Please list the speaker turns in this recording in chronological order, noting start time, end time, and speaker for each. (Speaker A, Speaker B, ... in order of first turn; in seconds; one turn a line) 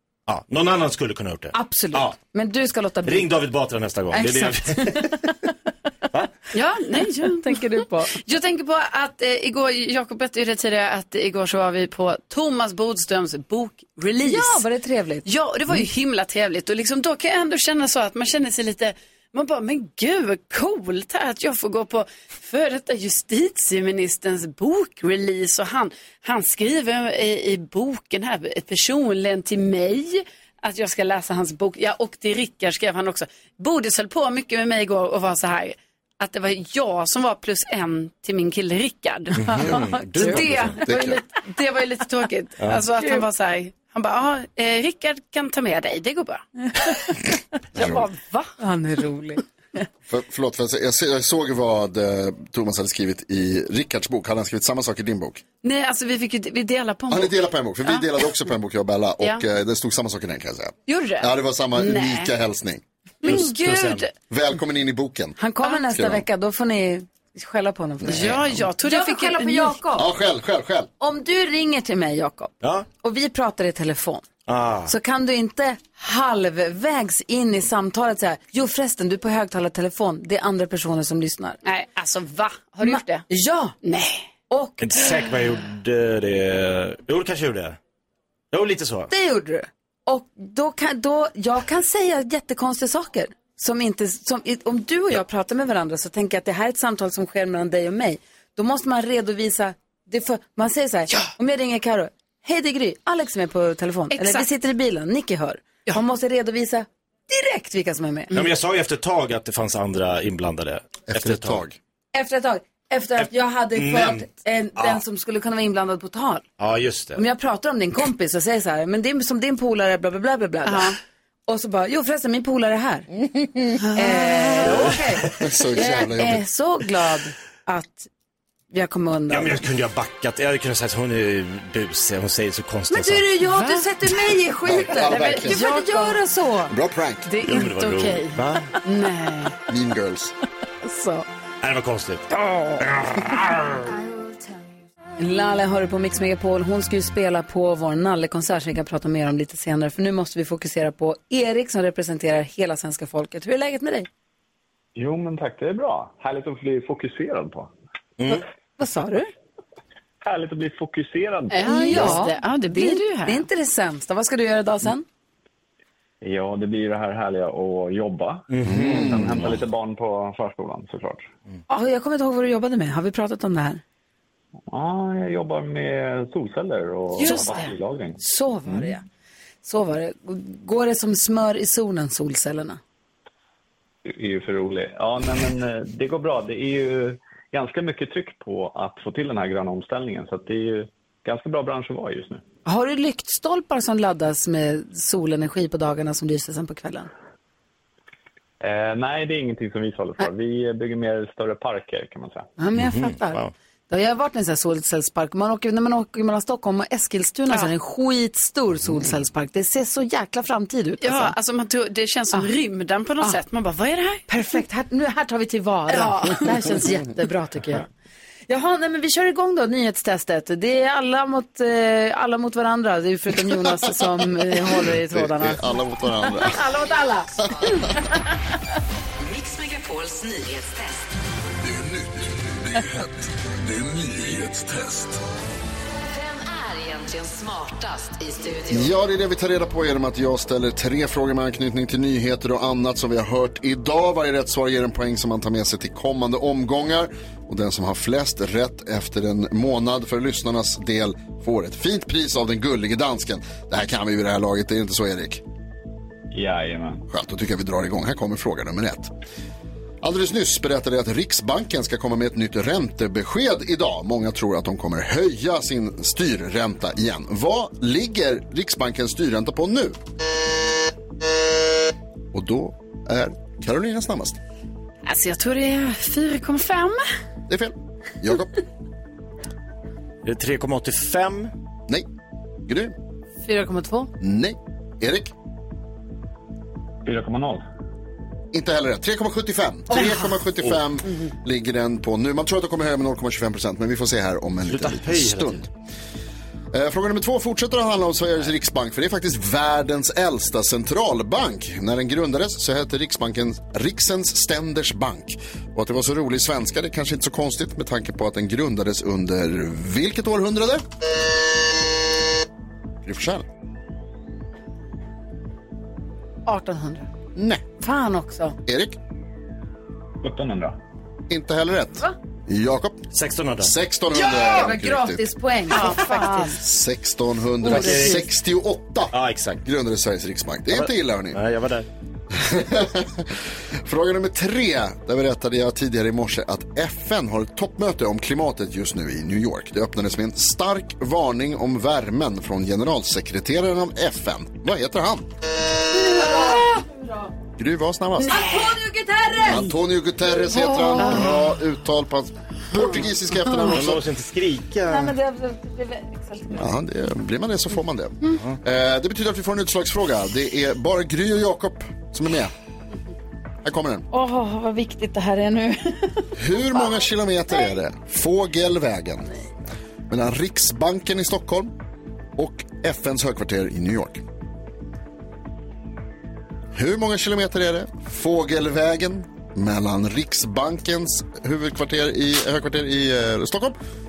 Speaker A: 0.3-2.1
Speaker B: 1.5-3.3
Speaker A: 3.0-5.1
Speaker B: 4.1-5.2
Speaker C: 6.5-14.6
Speaker B: 7.2-8.1
Speaker B: 14.2-15.2
Speaker C: 15.2-47.1
Speaker A: 39.4-40.8
Speaker B: 39.6-40.4
Speaker D: 40.9-41.2
Speaker B: 43.0-43.2
Speaker C: 47.7-48.5
Speaker D: 47.8-48.0
Speaker B: 48.6-49.4
Speaker D: 50.1-55.4
Speaker C: 55.6-58.3
Speaker D: 57.1-62.8
Speaker C: 60.9-62.3
Speaker C: 63.2-64.1
Speaker A: 63.2-64.0
Speaker D: 64.3-65.4
Speaker B: 65.4-68.3
Speaker D: 65.9-66.2
Speaker D: 68.0-68.5
Speaker C: 68.1-69.8
Speaker B: 68.8-70.1
Speaker D: 70.0-70.9
Speaker B: 71.0-74.2
Speaker A: 74.5-74.9
Speaker B: 74.9-81.6
Speaker C: 81.6-83.2
Speaker B: 82.8-83.7
Speaker C: 83.8-84.3
Speaker B: 84.5-85.0
Speaker A: 84.8-87.8
Speaker A: 88.5-89.1
Speaker B: 89.1-108.3
Speaker C: 104.1-104.5
Speaker A: 108.3-111.6
Speaker D: 111.1-111.8
Speaker B: 112.1-116.4
Speaker A: 113.2-114.3
Speaker A: 116.6-117.2
Speaker B: 117.2-120.9
Speaker C: 120.7-121.0
Speaker B: 121.5-123.1
Speaker C: 123.8-124.9
Speaker B: 123.9-128.1
Speaker D: 125.4-126.4
Speaker B: 128.7-129.6
Speaker A: 129.3-133.3
Speaker B: 132.9-136.7
Speaker C: 133.4-133.9
Speaker D: 134.6-135.6
Speaker C: 134.9-136.2
Speaker D: 136.7-137.3
Speaker C: 137.2-139.6
Speaker A: 137.4-138.7
Speaker D: 139.7-140.3
Speaker B: 140.8-141.2
Speaker A: 141.6-143.9
Speaker E: 144.1-144.4
Speaker B: 145.2-154.1
Speaker F: 154.9-157.7
Speaker B: 158.3-159.3
Speaker F: 160.2-161.7
Speaker C: 161.5-163.4
Speaker B: 161.6-165.0
Speaker F: 166.2-171.3
Speaker A: 168.5-169.5
Speaker D: 168.6-169.5
Speaker B: 171.7-173.8
Speaker F: 174.7-178.2
Speaker C: 177.1-177.8
Speaker B: 177.2-177.7
Speaker B: 178.2-179.0
Speaker B: 179.6-182.8
Speaker F: 184.1-192.4
Speaker B: 192.7-197.1
Speaker F: 198.6-202.5
Speaker B: 202.6-211.3
Speaker A: 202.8-203.5
Speaker C: 211.0-214.2
Speaker B: 214.3-217.8
Speaker C: 215.9-216.9
Speaker B: 218.5-225.7
Speaker D: 224.8-226.6
Speaker B: 226.2-227.3
Speaker E: 229.2-231.0
Speaker G: 231.7-232.0
Speaker G: 232.7-233.1
Speaker G: 233.6-235.2
Speaker E: 236.1-238.9
Speaker D: 238.7-255.4
Speaker F: 256.3-257.1
Speaker D: 257.1-259.1
Speaker D: 260.0-270.0
Speaker D: 272.3-274.4
Speaker C: 275.0-277.0
Speaker D: 277.5-278.5
Speaker A: 280.2-281.5
Speaker D: 282.7-282.9
Speaker B: 283.4-284.1
Speaker D: 284.2-285.3
Speaker F: 287.0-287.6
Speaker D: 288.5-295.7
Speaker A: 294.7-295.6
Speaker D: 296.7-310.8
Speaker D: 313.0-313.5
Speaker B: 316.4-317.1
Speaker D: 317.3-317.6
Speaker B: 317.8-318.6
Speaker D: 318.6-319.0
Speaker F: 320.2-320.8
Speaker D: 321.3-323.1
Speaker A: 323.1-323.7
Speaker D: 323.6-325.2
Speaker B: 324.1-326.6
Speaker C: 324.2-324.6
Speaker C: 325.7-326.6
Speaker D: 326.6-331.4
Speaker B: 327.6-328.3
Speaker A: 327.7-328.2
Speaker A: 329.1-329.6
Speaker A: 330.7-331.9
Speaker D: 332.3-345.3
Speaker B: 345.9-347.3
Speaker D: 347.6-348.4
Speaker C: 348.2-348.8
Speaker B: 348.3-349.7
Speaker D: 349.4-354.0
Speaker B: 350.5-351.3
Speaker C: 351.0-351.4
Speaker B: 353.5-353.9
Speaker A: 353.6-355.1
Speaker B: 354.9-356.7
Speaker D: 356.5-362.5
Speaker D: 363.6-364.1
Speaker B: 364.1-366.8
Speaker D: 366.4-369.3
Speaker D: 370.1-371.7
Speaker D: 372.4-374.2
Speaker D: 376.7-383.8